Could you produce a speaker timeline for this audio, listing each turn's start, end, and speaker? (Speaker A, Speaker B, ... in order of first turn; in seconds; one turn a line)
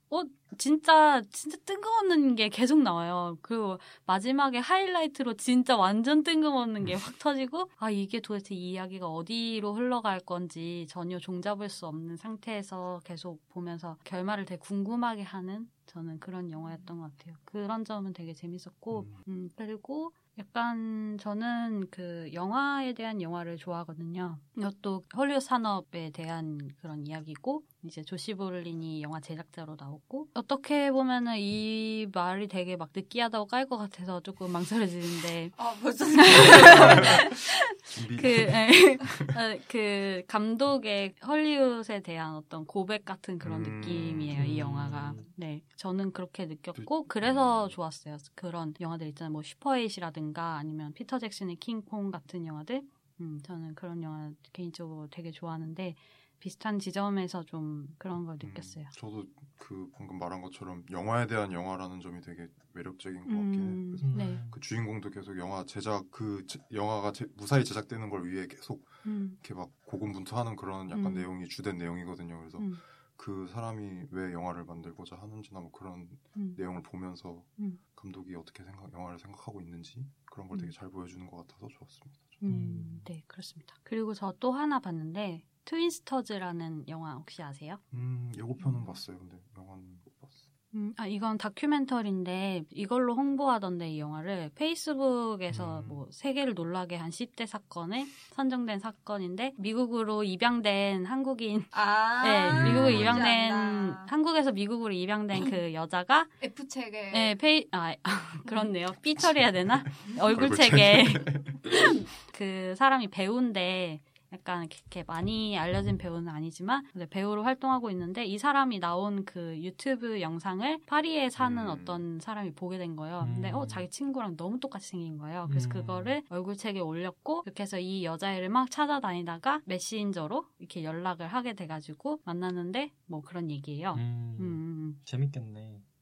Speaker A: 0.1-35.6
Speaker B: 18.9-19.2
Speaker C: 35.5-37.3
Speaker A: 36.1-37.6
Speaker B: 36.4-39.4
Speaker A: 38.1-58.9
Speaker B: 43.4-44.5
Speaker D: 44.3-45.3
Speaker B: 46.8-47.8
Speaker B: 58.4-82.4
Speaker A: 63.3-64.4
Speaker D: 64.0-64.6
Speaker A: 69.0-69.4
Speaker A: 70.9-71.3
Speaker A: 82.4-87.8
Speaker D: 82.5-83.1
Speaker B: 87.9-90.5
Speaker A: 90.7-106.3
Speaker B: 95.5-96.0
Speaker C: 101.7-104.1
Speaker B: 102.5-103.3
Speaker C: 106.4-107.4
Speaker A: 107.1-135.0
Speaker C: 108.5-108.7
Speaker B: 110.2-111.8
Speaker B: 121.4-122.0
Speaker D: 123.2-123.9
Speaker D: 125.5-126.2
Speaker D: 133.9-135.8